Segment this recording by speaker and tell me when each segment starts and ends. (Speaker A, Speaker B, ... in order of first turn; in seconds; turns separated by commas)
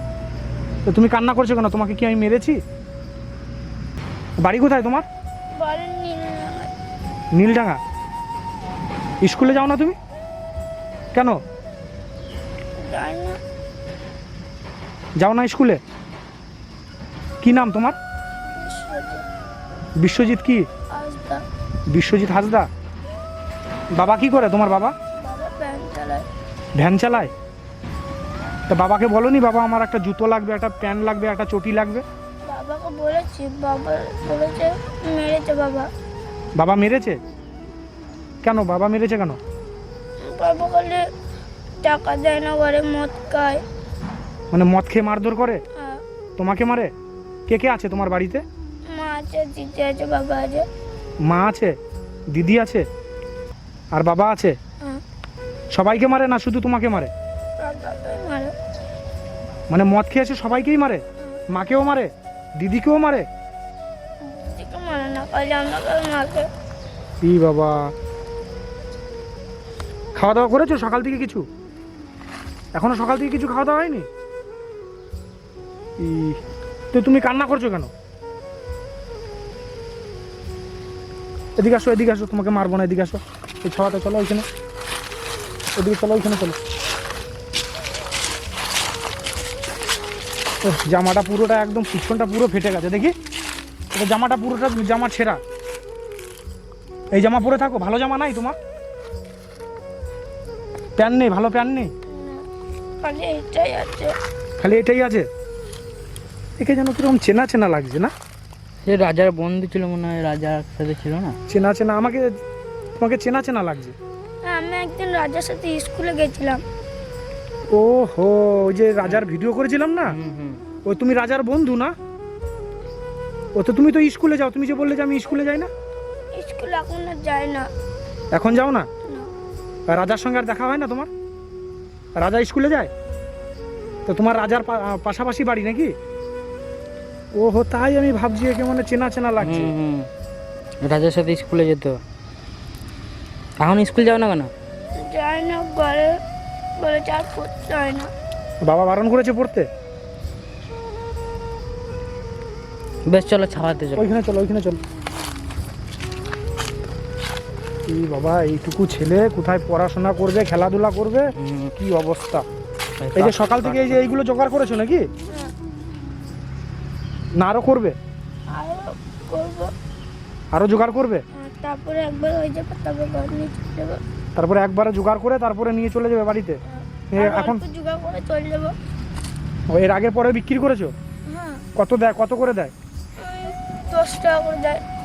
Speaker A: 0.9-2.6, Speaker A: 4.4-5.1, Speaker B: 5.6-6.7, Speaker A: 7.3-7.8, Speaker A: 9.2-10.0, Speaker B: 12.8-13.4, Speaker A: 15.2-15.8, Speaker A: 17.4-18.0, Speaker B: 18.5-19.2, Speaker A: 20.0-20.6, Speaker B: 20.9-21.4, Speaker A: 21.9-22.7, Speaker A: 24.0-24.9, Speaker B: 25.2-26.3, Speaker A: 26.8-27.3, Speaker A: 28.7-32.0, Speaker B: 32.5-35.9, Speaker A: 36.6-37.2, Speaker A: 38.4-39.4, Speaker B: 40.2-41.1, Speaker B: 41.8-43.6, Speaker A: 44.5-45.6, Speaker B: 45.8-46.0, Speaker A: 46.4-46.9, Speaker A: 47.5-48.4, Speaker B: 48.9-50.7, Speaker A: 51.3-51.7, Speaker A: 52.3-52.8, Speaker A: 53.9-54.6, Speaker A: 55.7-57.1, Speaker B: 57.6-58.5, Speaker A: 59.7-63.2, Speaker B: 64.2-66.5, Speaker A: 67.2-67.9, Speaker A: 70.2-71.5, Speaker A: 72.8-74.1, Speaker A: 76.0-76.4, Speaker A: 76.9-77.9, Speaker A: 81.6-84.5, Speaker A: 85.8-86.6, Speaker A: 90.7-93.2, Speaker A: 93.9-95.4, Speaker A: 97.1-98.5, Speaker A: 101.0-101.9, Speaker B: 102.1-102.5, Speaker B: 103.0-104.1, Speaker A: 104.6-105.3, Speaker A: 106.6-108.1, Speaker C: 108.8-111.4, Speaker A: 111.5-112.3, Speaker A: 113.0-114.0, Speaker B: 114.4-116.6, Speaker A: 117.7-120.2, Speaker C: 120.1-120.6, Speaker A: 120.9-122.0, Speaker A: 123.6-125.7, Speaker B: 126.3-127.7, Speaker A: 128.3-128.9, Speaker A: 129.9-131.1, Speaker A: 132.2-132.9, Speaker A: 134.1-135.9, Speaker A: 137.4-139.7, Speaker C: 139.4-140.1, Speaker C: 140.8-142.0, Speaker C: 143.6-144.5, Speaker B: 145.0-146.2, Speaker B: 146.8-148.1, Speaker A: 148.7-149.7, Speaker C: 153.1-154.1, Speaker A: 154.0-154.8, Speaker A: 157.9-162.4, Speaker C: 161.4-161.7, Speaker C: 163.0-164.0, Speaker A: 163.2-165.1, Speaker A: 167.4-167.9, Speaker B: 168.5-169.7, Speaker A: 170.5-171.2, Speaker B: 171.3-174.0, Speaker A: 174.4-176.6, Speaker B: 176.8-178.8, Speaker A: 177.1-177.6, Speaker A: 179.7-180.9, Speaker B: 181.3-181.7, Speaker A: 181.8-182.7, Speaker B: 183.2-184.8